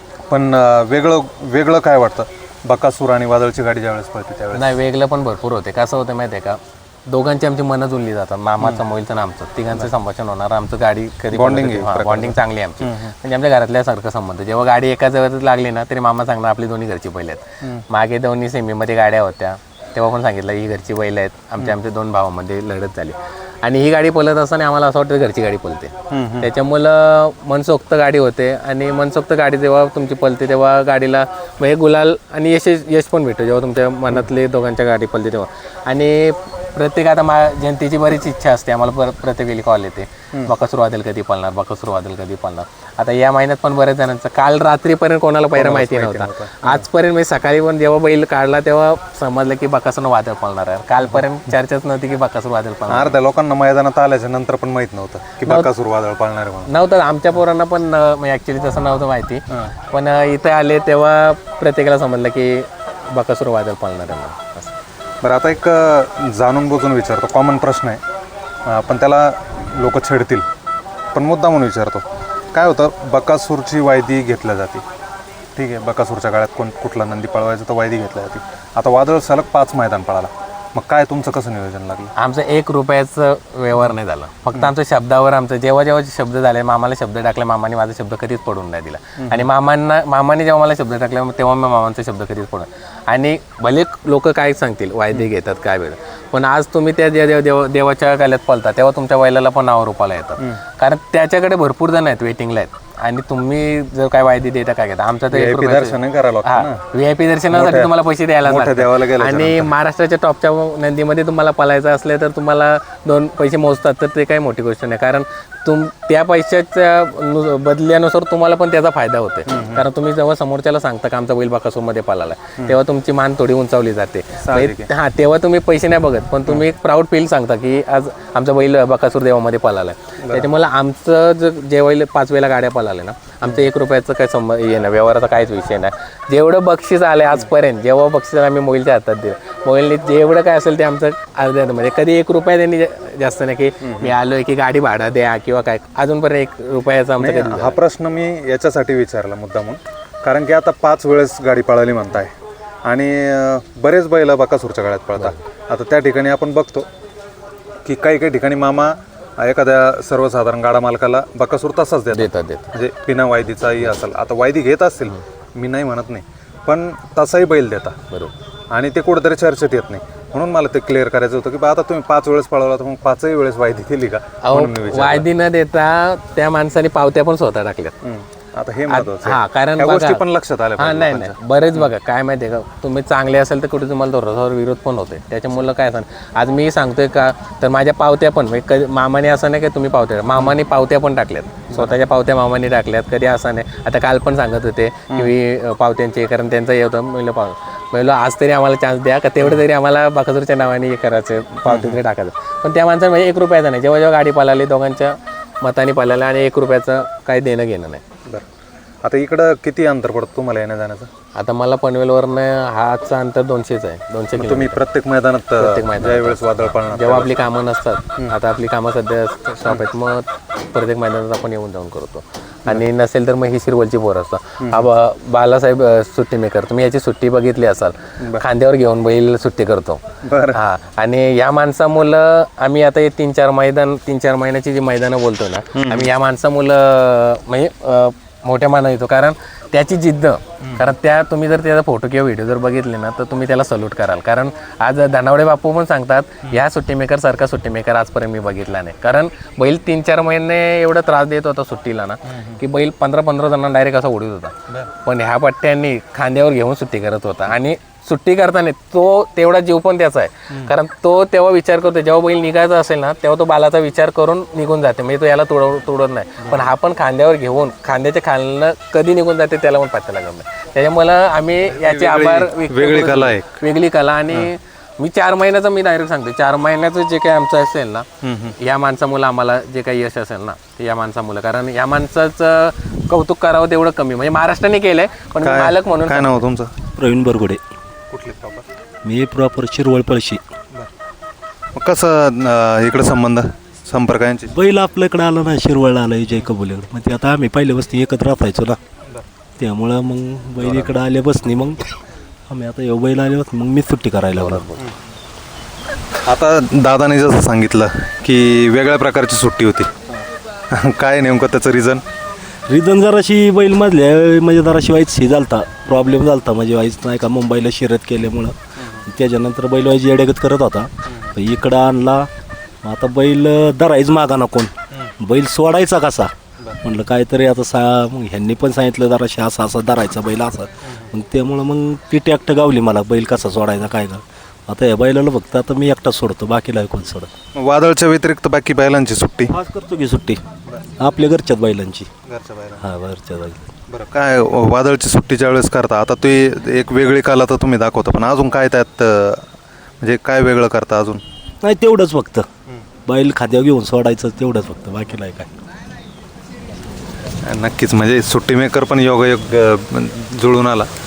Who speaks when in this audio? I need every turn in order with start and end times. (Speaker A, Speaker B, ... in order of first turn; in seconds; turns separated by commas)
Speaker A: 0.3-4.8, Speaker B: 4.5-53.2, Speaker A: 11.3-13.1, Speaker A: 26.1-26.5, Speaker A: 45.5-46.8, Speaker A: 52.9-56.7, Speaker B: 55.4-55.7, Speaker B: 56.7-64.7, Speaker A: 65.2-68.0, Speaker A: 68.7-70.5, Speaker A: 71.1-74.8, Speaker A: 75.5-82.1, Speaker B: 82.2-147.8, Speaker A: 89.2-89.5, Speaker A: 105.3-106.8, Speaker A: 107.5-107.9, Speaker A: 108.4-109.7, Speaker A: 119.5-119.8, Speaker A: 124.4-124.9, Speaker A: 130.2-130.5, Speaker A: 143.8-144.1, Speaker A: 147.2-152.3, Speaker A: 152.9-156.9, Speaker A: 157.8-168.0, Speaker B: 162.1-162.7, Speaker A: 168.7-175.2, Speaker B: 174.4-177.9, Speaker A: 178.0-181.9, Speaker B: 178.9-180.2, Speaker B: 180.8-208.0, Speaker A: 201.7-202.0, Speaker A: 209.0-211.1, Speaker B: 211.3-214.8, Speaker A: 214.4-217.4, Speaker B: 215.6-278.1, Speaker A: 224.6-224.9, Speaker A: 230.2-230.6, Speaker A: 235.8-236.1, Speaker A: 240.6-240.9, Speaker A: 252.3-252.6, Speaker A: 266.4-266.7, Speaker A: 271.7-273.6, Speaker A: 278.2-278.5, Speaker B: 278.6-286.4, Speaker A: 285.4-286.7, Speaker C: 286.9-287.6, Speaker A: 288.1-288.6, Speaker C: 289.0-290.4, Speaker A: 291.7-294.5, Speaker C: 294.5-298.8, Speaker C: 299.6-301.8, Speaker A: 300.6-300.9, Speaker C: 302.5-304.6, Speaker B: 304.3-304.8, Speaker A: 306.2-309.9, Speaker A: 310.7-312.0, Speaker C: 312.7-322.3, Speaker C: 322.8-337.3, Speaker A: 337.6-339.5, Speaker C: 339.5-340.4, Speaker C: 341.0-342.1, Speaker A: 342.3-342.9, Speaker C: 342.8-343.7, Speaker A: 343.9-349.4, Speaker A: 350.0-351.2, Speaker C: 351.6-352.4, Speaker C: 353.1-355.5, Speaker A: 357.4-360.9